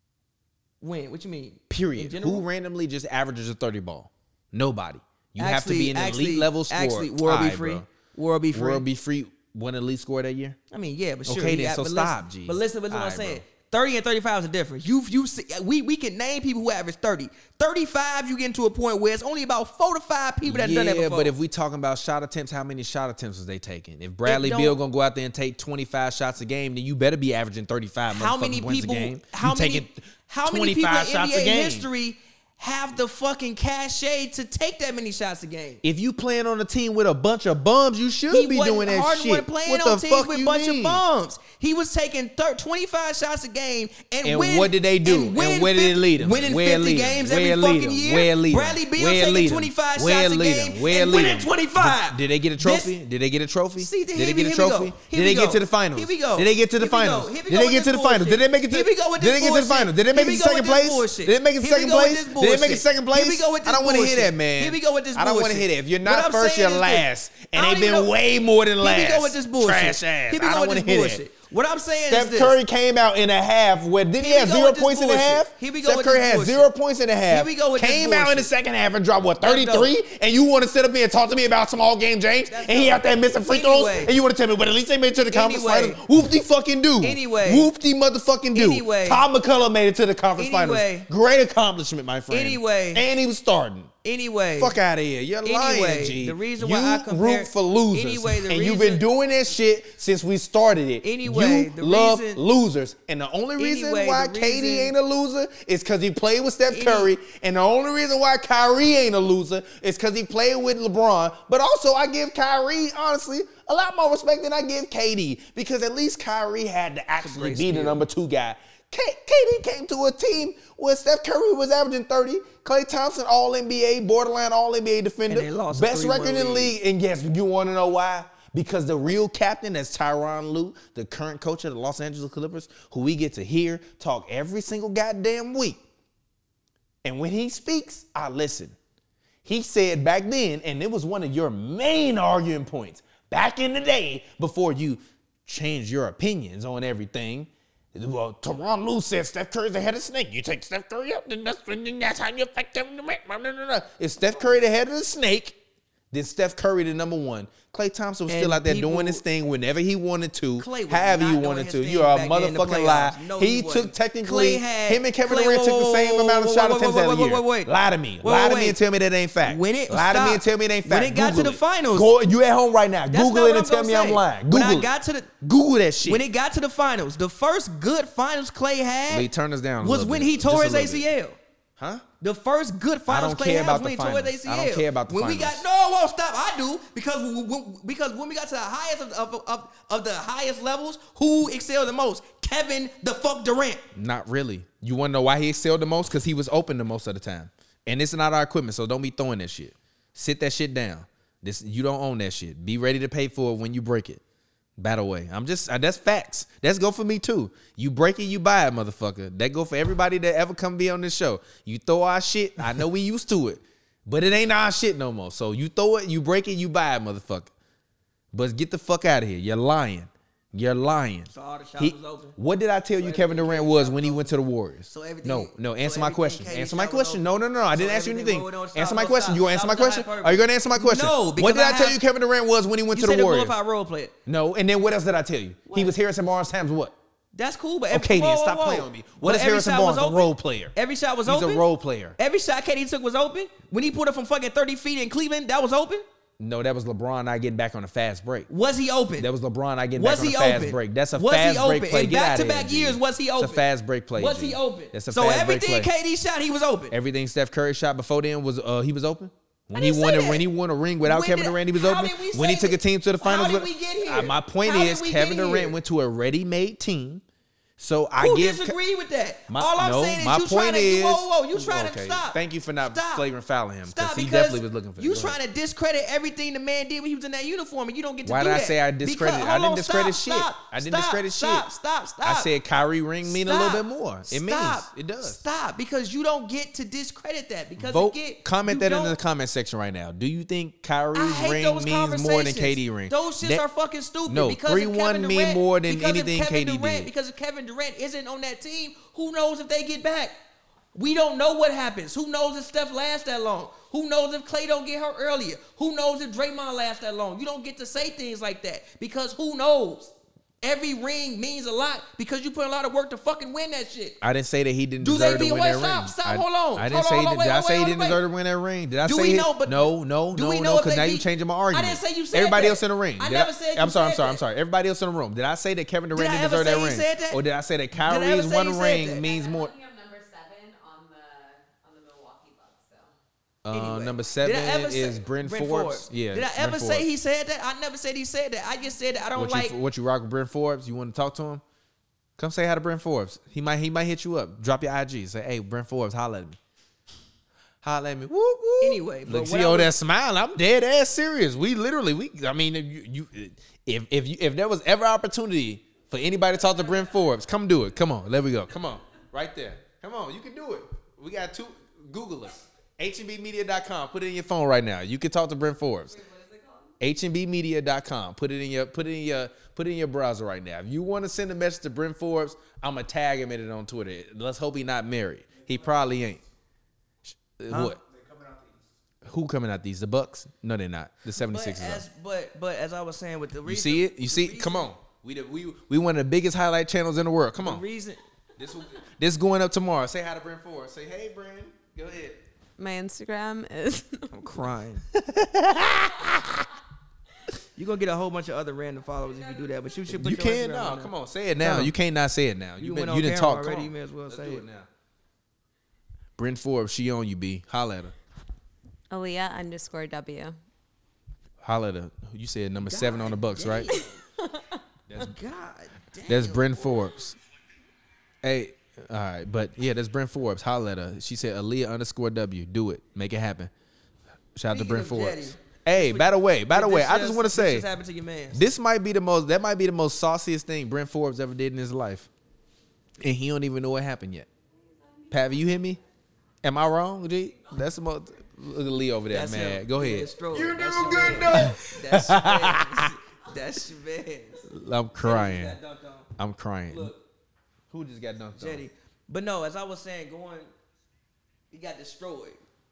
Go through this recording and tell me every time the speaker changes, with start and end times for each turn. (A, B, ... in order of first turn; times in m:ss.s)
0:00.8-0:02.4 A
0:01.7-0:07.9 B
0:05.4-0:08.8 A
0:08.5-0:10.6 B
0:10.7-0:21.3 A
0:11.3-0:13.4 B
0:20.4-0:31.9 B
0:24.2-0:24.8 A
0:28.1-0:35.8 A
0:35.8-0:41.0 B
0:38.3-0:52.9 A
0:44.2-1:11.2 B
0:53.8-1:08.1 A
1:08.8-1:12.6 A
1:12.1-1:33.9 B
1:14.2-1:16.7 A
1:17.3-1:18.5 A
1:19.4-1:19.9 A
1:22.5-1:24.1 A
1:25.3-1:26.0 A
1:27.0-1:27.7 A
1:28.6-1:29.2 A
1:30.4-1:31.1 A
1:32.3-1:33.0 A
1:34.0-1:34.8 A
1:34.6-2:15.8 B
1:35.4-1:39.0 A
1:41.0-1:42.4 A
1:43.6-1:44.9 A
1:46.7-1:47.1 A
1:57.2-1:58.0 A
2:05.3-2:06.8 A
2:17.0-2:18.8 B
2:19.4-2:35.6 B
2:36.1-2:54.9 B
2:38.3-2:39.2 A
2:40.6-2:47.7 A
2:48.2-2:48.8 A
2:49.4-2:52.1 A
2:53.1-2:55.3 A
2:55.4-2:56.2 B
2:56.0-2:59.3 A
2:59.1-3:01.1 B
2:59.8-3:01.4 A
3:01.8-3:02.0 B
3:02.2-3:13.8 A
3:03.1-3:05.6 B
3:14.0-3:24.2 B
3:24.8-3:37.5 B
3:38.3-3:53.6 B
3:41.3-3:42.4 A
3:43.0-3:44.2 A
3:44.9-3:52.0 A
3:52.9-3:54.2 A
3:54.3-3:57.0 B
3:57.3-4:01.7 A
3:57.9-4:00.8 B
4:01.3-4:02.2 B
4:02.2-4:06.0 A
4:06.4-4:08.5 B
4:08.5-4:09.3 A
4:09.2-4:15.9 B
4:10.0-4:16.9 A
4:16.9-4:27.2 B
4:19.7-4:20.5 A
4:21.0-4:25.8 A
4:27.8-4:28.8 B
4:28.2-4:33.3 A
4:29.5-4:35.4 B
4:33.9-4:42.5 A
4:38.2-4:41.7 B
4:42.2-4:45.4 B
4:43.2-4:49.2 A
4:47.8-4:53.6 B
4:51.2-5:00.3 A
4:54.3-4:57.1 B
5:01.0-5:14.2 A
5:14.2-5:29.7 B
5:15.0-5:18.2 A
5:19.0-5:24.4 A
5:26.1-5:27.4 A
5:28.0-5:29.2 A
5:29.2-5:33.1 C
5:33.6-5:37.1 B
5:33.7-5:39.8 A
5:39.4-5:41.6 B
5:42.4-5:46.6 B
5:47.8-6:06.2 B
5:48.8-5:49.9 A
6:06.1-6:06.9 C
6:07.0-6:16.4 B
6:17.3-6:18.0 B
6:17.7-6:18.0 A
6:19.2-6:22.0 B
6:21.4-6:24.9 A
6:23.7-6:27.8 B
6:27.6-6:28.2 A
6:28.6-6:32.4 B
6:32.8-6:34.3 C
6:34.3-6:35.0 A
6:35.1-6:36.6 B
6:37.8-6:41.9 A
6:40.1-6:44.9 B
6:42.8-6:44.6 A
6:46.4-6:48.1 B
6:49.1-6:50.6 C
6:51.6-6:53.9 B
6:52.9-6:54.2 A
6:55.1-6:55.4 B
6:55.2-6:57.1 A
6:56.3-6:57.4 B
6:58.4-7:03.7 B
7:04.6-7:07.9 B
7:04.7-7:08.6 A
7:08.5-7:12.3 B
7:13.2-7:14.5 B
7:14.8-7:15.8 C
7:15.3-7:16.0 B
7:16.6-7:23.1 B
7:19.3-7:24.6 A
7:24.6-7:25.8 B
7:25.2-7:26.3 A
7:26.4-7:27.1 B
7:26.9-7:27.2 A
7:27.9-7:28.8 B
7:28.6-7:30.7 A
7:31.7-7:32.6 A